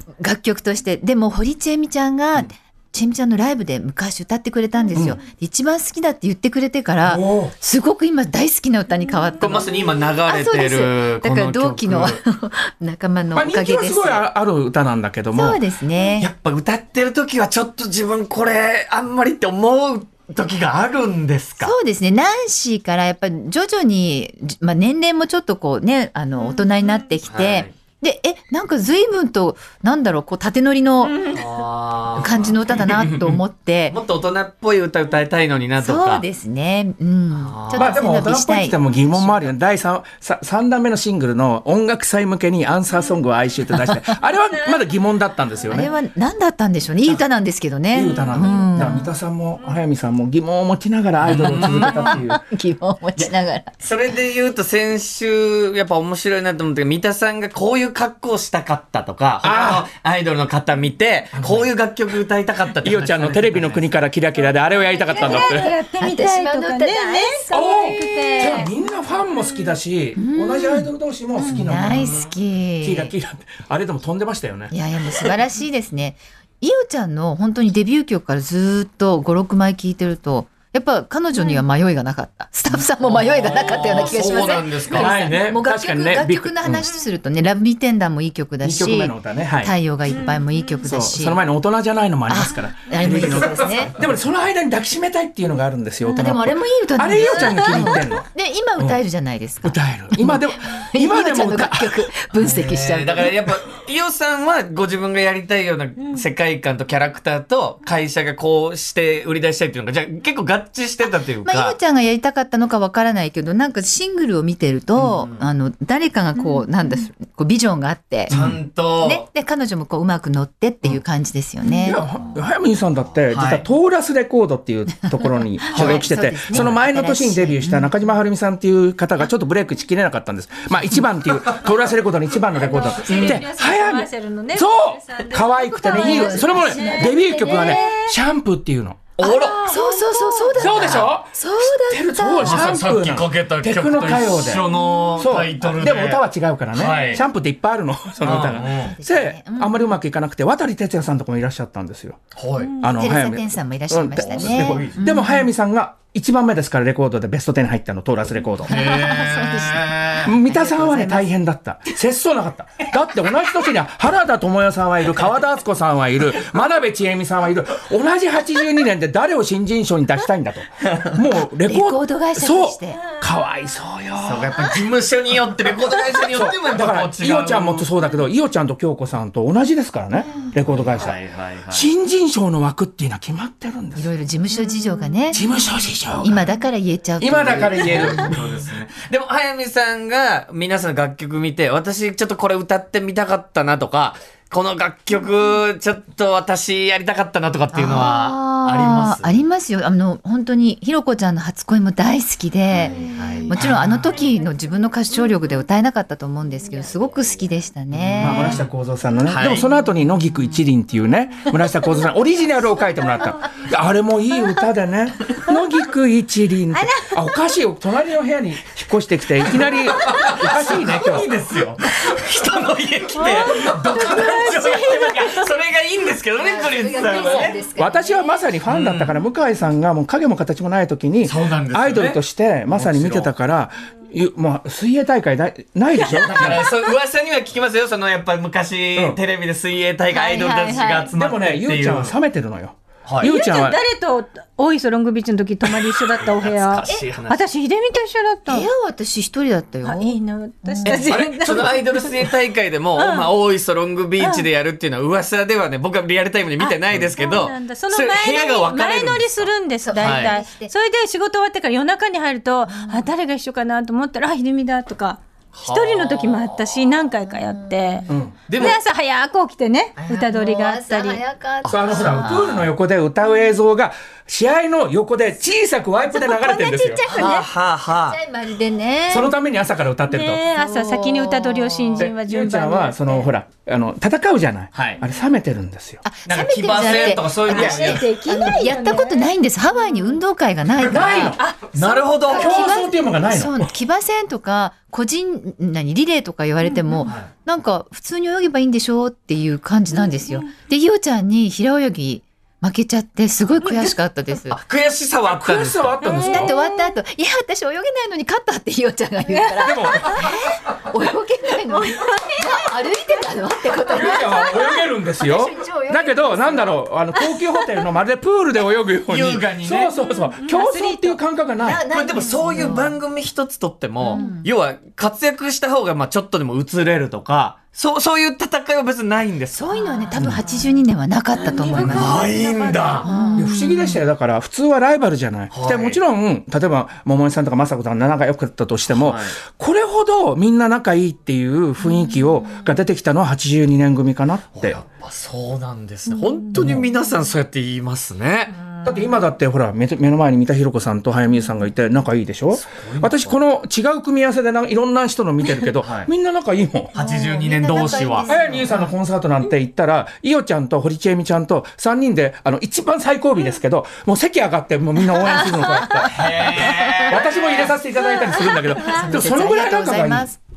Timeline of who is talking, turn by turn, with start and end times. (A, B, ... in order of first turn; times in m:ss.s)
0:00.2-0:14.3 A
0:07.0-0:07.5 B
0:09.4-0:12.2 C
0:13.4-0:15.6 B
0:15.3-0:16.3 A
0:16.2-0:21.8 C
0:21.6-0:31.3 A
0:27.3-0:27.7 C
0:31.1-0:31.4 D
0:31.3-0:36.2 C
0:32.2-0:34.0 A
0:35.8-0:39.5 A
0:37.3-0:38.0 C
0:37.7-0:45.9 B
0:45.7-0:49.1 A
0:47.9-0:52.4 B
0:51.2-0:52.2 C
0:51.6-0:53.7 A
0:53.2-1:03.9 C
0:59.4-0:59.9 B
1:01.4-1:01.7 B
1:02.8-1:05.7 B
1:04.9-1:08.7 D
1:05.1-1:08.7 A
1:07.5-1:12.2 B
1:09.3-1:09.7 D
1:10.2-1:10.9 A
1:11.4-1:11.7 D
1:11.5-1:13.1 A
1:11.9-1:12.3 C
1:12.8-1:14.7 B
1:14.7-1:31.4 A
1:21.3-1:21.6 D
1:23.0-1:25.2 C
1:24.9-1:26.9 B
1:28.6-1:29.8 B
1:30.1-1:30.8 D
1:30.8-1:38.3 B
1:32.3-1:34.0 A
1:36.2-1:43.5 A
1:37.2-1:38.0 D
1:39.6-1:42.0 B
1:42.4-1:51.8 C
1:51.4-1:58.4 A
1:55.0-1:55.4 C
1:56.4-1:57.0 D
1:58.3-1:59.3 C
1:58.3-1:58.6 B
1:59.0-2:02.0 A
2:01.6-2:02.0 D
2:01.8-2:19.1 B
2:03.3-2:03.6 C
2:05.6-2:08.0 A
2:05.7-2:06.7 C
2:12.5-2:18.1 D
2:13.0-2:13.4 A
2:15.9-2:17.8 A
2:19.2-2:19.8 C
2:19.2-2:22.7 A
2:19.4-2:20.9 D
2:20.6-2:24.7 B
2:20.6-2:21.1 C
2:22.4-2:27.2 C
2:24.5-2:25.2 D
2:25.2-2:32.2 B
2:28.2-2:29.0 C
2:28.6-2:30.0 A
2:32.4-2:32.8 C
2:32.6-2:33.1 D
2:32.8-2:38.8 B
2:32.9-2:35.5 A
2:34.2-2:35.0 C
2:38.6-2:40.3 C
2:38.7-2:41.3 A
2:40.2-2:54.7 B
2:51.6-2:53.0 A
2:54.2-2:57.9 C
2:56.2-3:01.2 B
3:00.1-3:00.6 A
3:00.7-3:01.9 C
3:01.7-3:04.1 B
3:04.0-3:05.4 A
3:05.3-3:06.5 B
3:06.2-3:08.3 A
3:07.2-3:08.4 B
3:07.5-3:19.4 C
3:17.7-3:28.6 A
3:22.7-3:24.2 C
3:27.9-3:28.7 C
3:28.2-3:41.3 B
3:29.3-3:29.7 C
3:36.8-3:37.1 D
3:39.4-3:47.6 C
3:43.1-3:45.4 D
3:46.4-3:48.4 A
3:47.1-3:56.6 B
3:48.7-3:49.1 C
3:51.2-3:53.3 C
3:55.9-3:56.9 D
3:56.2-4:02.1 C
4:00.1-4:01.1 A
4:01.1-4:03.8 B
4:03.2-4:08.7 D
4:05.7-4:07.4 C
4:08.5-4:11.2 A
4:09.8-4:12.3 D
4:10.8-4:20.3 C
4:13.0-4:13.3 D
4:14.2-4:14.5 D
4:16.6-4:31.2 D
4:19.8-4:20.7 A
4:22.7-4:23.1 A
4:25.6-4:27.0 C
4:27.2-4:28.1 A
4:28.1-4:28.8 B
4:28.5-4:28.8 C
4:30.0-4:32.6 A
4:31.6-4:32.7 C
4:31.7-4:37.0 B
4:36.1-4:37.5 D
4:37.1-4:38.2 C
4:38.1-4:39.3 A
4:39.1-4:40.5 B
4:40.1-4:43.0 D
4:40.5-4:42.1 A
4:42.0-4:46.0 B
4:44.7-4:45.0 C
4:46.0-4:51.4 A
4:46.3-4:48.1 C
4:46.9-4:49.3 D
4:50.8-4:52.6 C
4:50.9-4:51.4 B
4:51.3-4:52.8 D
4:52.3-4:53.7 B
4:52.3-5:04.6 A
4:56.7-4:57.1 D
5:03.6-5:03.9 D
5:04.5-5:06.5 C
5:05.2-5:06.5 B
5:06.0-5:06.8 D
5:06.2-5:16.9 A
5:09.3-5:10.3 D
5:09.6-5:10.3 B
5:11.7-5:12.5 D
5:13.9-5:21.8 B
5:14.2-5:14.8 D
5:19.1-5:19.9 C
5:20.1-5:21.2 D
5:21.6-5:23.0 A
5:21.9-5:29.6 C
5:24.0-5:24.3 D
5:24.1-5:24.5 A
5:29.5-5:32.3 A
5:29.7-5:30.8 D
5:31.3-5:33.6 D
5:31.8-5:33.1 C
5:33.0-5:34.0 A
5:33.4-5:44.8 B
5:35.5-5:36.0 C
5:38.9-5:39.4 C
5:44.5-5:48.6 C
5:46.6-5:46.8 B
5:48.8-5:57.0 B
5:52.5-5:53.4 C
5:55.6-5:56.1 C
5:56.9-5:58.5 C
5:57.0-5:58.9 A
5:58.2-6:10.3 B
6:06.0-6:07.8 C
6:06.7-6:07.1 A
6:08.2-6:09.2 D
6:08.7-6:10.4 A